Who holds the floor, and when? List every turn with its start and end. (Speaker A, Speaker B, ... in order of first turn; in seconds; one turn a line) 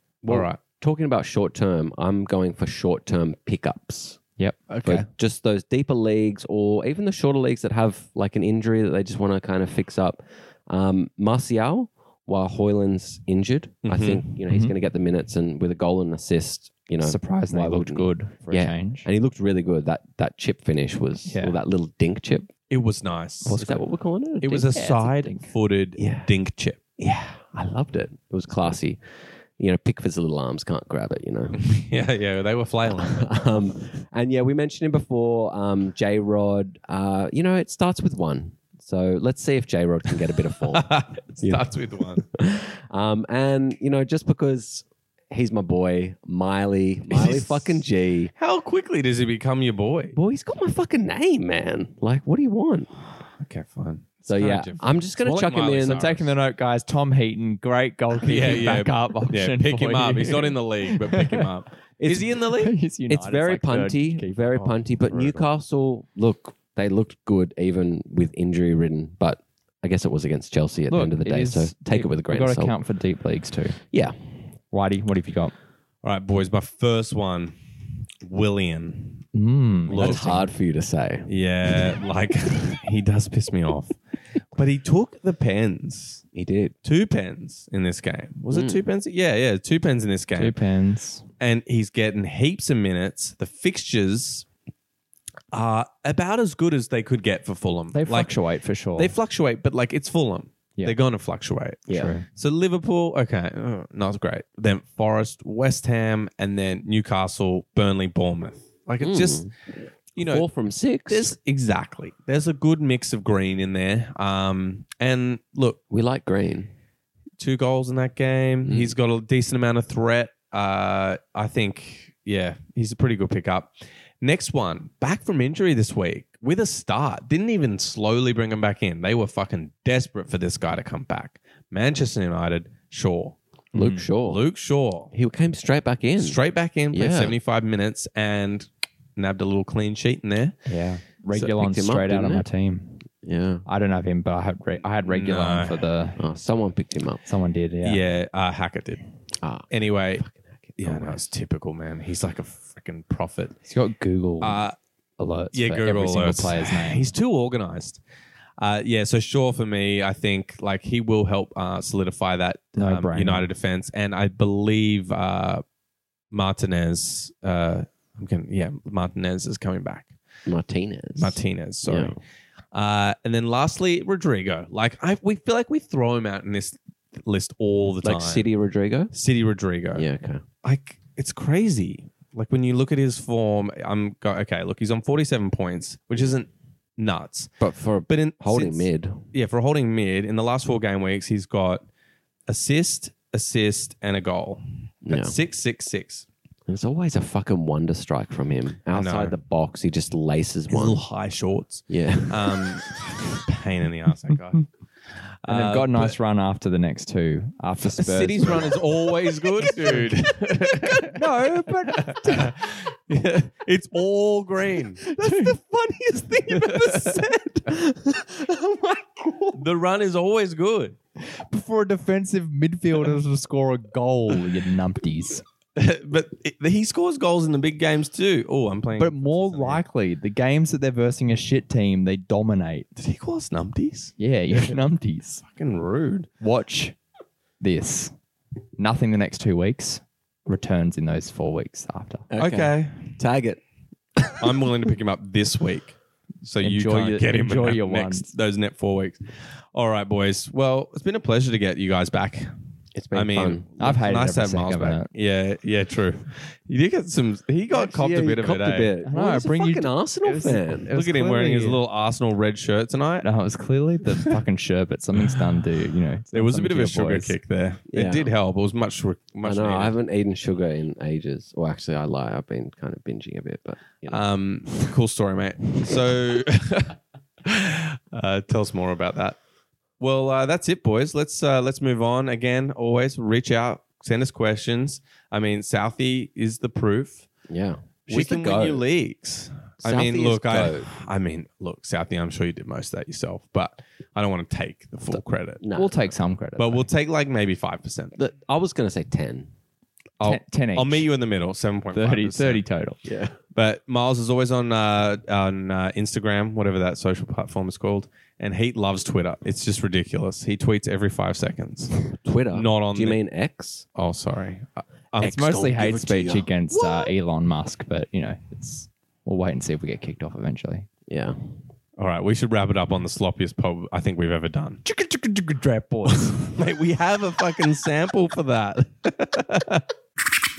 Speaker A: 0.2-4.2
Speaker B: 0.3-0.6
Speaker B: 4.7-5.1
Speaker A: 4.8-22.5
Speaker B: 13.8-14.4
Speaker C: 17.0-19.1
Speaker C: 21.3-21.6
Speaker B: 22.7-23.8
Speaker A: 23.5-24.7
Speaker C: 23.5-23.8
Speaker B: 24.4-26.8
Speaker C: 24.5-25.5
Speaker A: 26.0-26.3
Speaker A: 27.0-29.0
Speaker A: 29.6-31.7
Speaker B: 31.6-33.4
Speaker A: 33.1-48.3
Speaker B: 40.7-42.3
Speaker B: 47.1-47.8
Speaker B: 48.4-50.2
Speaker A: 50.1-52.9
Speaker B: 53.4-56.3
Speaker A: 54.3-56.1
Speaker C: 55.9-61.5
Speaker B: 58.2-62.8
Speaker A: 62.0-62.3
Speaker C: 62.5-64.7
Speaker A: 63.1-72.8
Speaker B: 65.0-65.4
Speaker C: 70.9-73.8
Speaker A: 73.9-74.2
Speaker C: 74.7-75.5
Speaker B: 76.0-77.5
Speaker B: 78.2-79.3
Speaker C: 79.3-80.4
Speaker B: 79.9-80.4
Speaker A: 79.9-81.3
Speaker B: 81.3-84.0
Speaker B: 84.5-86.2
Speaker A: 86.3-86.8
Speaker B: 86.8-90.6
Speaker A: 88.5-88.8
Speaker C: 90.3-91.2
Speaker B: 91.4-94.5
Speaker B: 95.5-98.3
Speaker C: 97.9-99.1
Speaker B: 99.0-109.5
Speaker A: 101.9-102.1
Speaker C: 101.9-102.2
Speaker A: 109.0-109.5
Speaker B: 110.2-110.5
Speaker A: 110.2-111.3
Speaker B: 111.1-115.8
Speaker A: 115.9-116.7
Speaker B: 117.4-133.4
Speaker A: 118.6-118.9
Speaker C: 133.7-134.0
Speaker A: 133.7-134.4
Speaker B: 134.0-135.1
Speaker A: 135.1-136.4
Speaker B: 136.2-140.6
Speaker A: 136.9-137.3
Speaker C: 140.7-143.0
Speaker A: 141.3-142.5
Speaker A: 143.2-143.7
Speaker C: 143.7-146.2
Speaker B: 145.1-145.9
Speaker A: 146.2-147.2
Speaker C: 147.3-148.0
Speaker B: 147.8-149.0
Speaker A: 149.4-151.2
Speaker B: 149.7-150.2
Speaker B: 150.8-153.6
Speaker C: 153.7-154.7
Speaker B: 154.4-154.8
Speaker C: 155.2-157.1
Speaker B: 155.5-158.0
Speaker B: 158.6-165.6
Speaker C: 162.8-163.5
Speaker B: 166.3-170.1
Speaker A: 170.5-172.2
Speaker B: 171.2-172.2
Speaker B: 172.7-178.5
Speaker A: 178.0-179.1
Speaker B: 179.1-180.1
Speaker A: 179.9-180.4
Speaker B: 180.6-191.8
Speaker A: 187.6-189.3
Speaker B: 192.5-196.3
Speaker A: 195.1-195.4
Speaker A: 196.7-201.0
Speaker B: 198.9-199.4
Speaker B: 200.7-204.7
Speaker A: 201.9-202.8
Speaker B: 205.4-206.2
Speaker C: 205.5-210.3
Speaker B: 207.9-211.2
Speaker A: 209.9-210.1
Speaker C: 211.0-212.6
Speaker B: 211.7-215.1
Speaker C: 215.0-219.6
Speaker A: 215.2-215.6
Speaker B: 216.5-217.2
Speaker B: 219.6-221.0
Speaker C: 221.2-225.4
Speaker B: 225.8-229.8
Speaker C: 229.0-232.9
Speaker B: 233.0-234.8
Speaker C: 234.2-235.4
Speaker B: 235.4-236.3
Speaker C: 236.4-237.0
Speaker C: 237.6-238.2
Speaker C: 238.8-242.3
Speaker A: 242.3-243.6
Speaker B: 242.4-243.2
Speaker A: 244.2-244.4
Speaker B: 244.4-252.5
Speaker C: 246.6-248.3
Speaker A: 252.9-253.7
Speaker B: 253.1-258.9
Speaker C: 253.8-255.1
Speaker A: 257.7-260.9
Speaker C: 259.1-261.8
Speaker B: 260.9-263.3
Speaker C: 263.2-267.4
Speaker B: 266.3-269.9
Speaker A: 267.9-268.3
Speaker A: 269.4-274.2
Speaker B: 274.1-279.4
Speaker B: 280.0-287.3
Speaker A: 287.5-288.8
Speaker B: 288.1-295.6
Speaker A: 289.8-290.9
Speaker A: 295.6-296.0
Speaker C: 295.8-296.9
Speaker B: 296.6-298.2
Speaker A: 298.2-299.5
Speaker C: 300.2-301.1
Speaker B: 300.2-302.6
Speaker C: 301.9-303.0
Speaker A: 303.1-303.4
Speaker B: 303.5-313.2
Speaker A: 312.1-313.9
Speaker B: 314.0-315.6
Speaker C: 315.2-320.9
Speaker A: 315.2-317.1
Speaker A: 321.1-321.4
Speaker B: 322.0-324.8
Speaker C: 324.9-326.5
Speaker B: 326.1-329.8